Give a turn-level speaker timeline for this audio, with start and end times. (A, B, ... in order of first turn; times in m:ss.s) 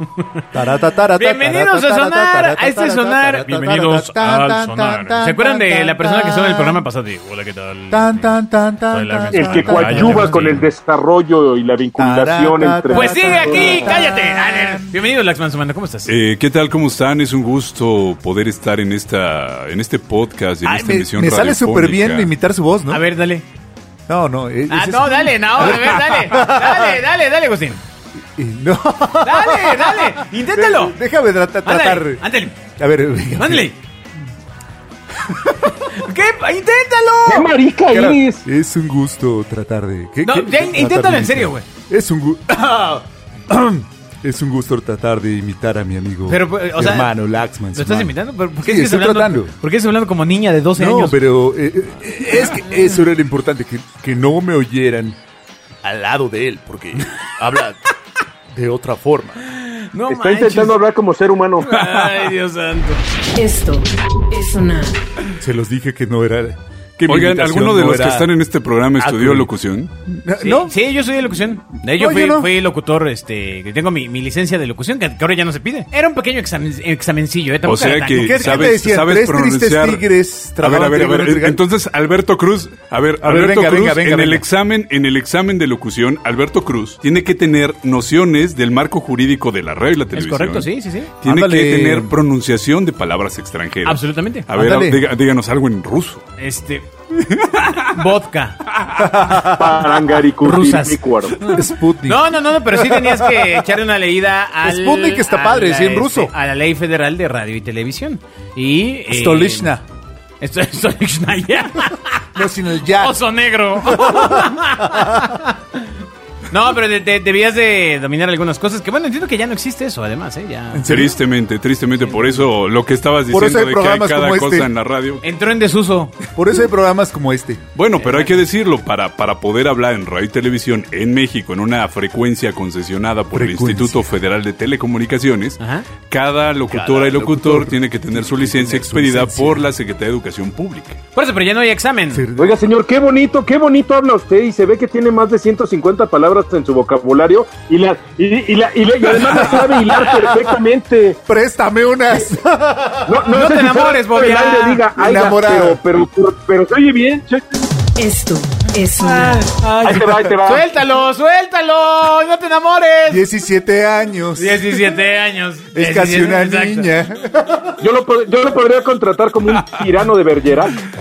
0:00.5-0:06.8 A
0:01.2-0:08.3 B
0:07.9-0:10.6 A
0:08.9-0:10.6 B
0:09.3-0:13.9 C
0:10.0-0:10.3 D
0:12.0-0:14.9 A
0:12.9-0:16.1 B
0:16.1-0:22.3 D
0:20.6-0:23.0 A
0:22.9-0:23.5 B
0:24.1-0:27.0 A
0:24.7-0:27.8 B
0:28.4-0:33.7 A
0:29.2-0:31.0 B
0:31.6-0:32.6 B
0:33.4-0:33.8 B
0:35.7-0:37.5 B
0:37.3-0:38.4 C
0:37.9-0:49.5 A
0:40.2-0:41.7 B
0:46.3-0:47.1 B
0:47.7-0:51.2 B
0:50.8-0:55.2 A
0:52.4-0:52.9 B
0:55.8-0:57.8 A
0:57.5-0:57.7 B
0:58.5-0:59.4 A
0:59.5-1:00.7 B
1:00.1-1:01.8 C
1:01.7-1:03.0 B
1:01.8-1:02.3 D
1:03.4-1:05.0 E
1:05.4-1:08.3 A
1:07.1-1:09.9 D
1:09.0-1:09.5 A
1:10.1-1:10.8 A
1:10.4-1:18.8 B
1:11.9-1:12.5 A
1:17.6-1:20.1 D
1:18.1-1:21.6 A
1:20.6-1:30.7 D
1:23.2-1:24.4 A
1:30.1-1:31.1 B
1:31.2-1:36.2 D
1:31.2-1:32.1 A
1:33.8-1:34.5 B
1:34.5-1:35.0 A
1:36.4-1:36.9 B
1:37.3-1:37.9 D
1:37.7-1:38.6 B
1:38.8-1:39.1 D
1:39.0-1:40.0 A
1:39.4-1:41.4 C
1:40.4-1:49.7 B
1:41.5-1:43.6 A
1:44.6-1:46.3 A
1:49.1-1:49.8 A
1:50.4-1:52.3 B
1:52.4-1:53.2 A
1:52.9-1:55.9 B
1:53.8-1:55.3 A
1:56.5-2:00.9 B
2:00.7-2:01.2 A
2:00.9-2:05.2 D
2:02.1-2:02.4 B
2:03.3-2:04.7 A
2:05.2-2:06.1 B
2:06.4-2:07.6 A
2:07.8-2:21.0 D
2:08.0-2:08.4 B
2:13.3-2:14.1 A
2:15.6-2:15.9 B
2:16.7-2:19.7 A
2:21.2-2:22.2 B
2:22.1-2:22.6 A
2:22.4-2:31.2 C
2:29.6-2:29.9 A
2:31.3-2:33.3 A
2:33.1-2:37.4 C
2:33.3-2:34.8 B
2:35.0-2:35.8 A
2:38.0-2:39.5 E
2:39.0-2:43.2 B
2:39.8-2:40.7 C
2:43.1-2:44.8 A
2:44.4-2:46.9 B
2:45.8-2:47.8 A
2:47.8-2:50.8 C
2:49.5-2:49.8 D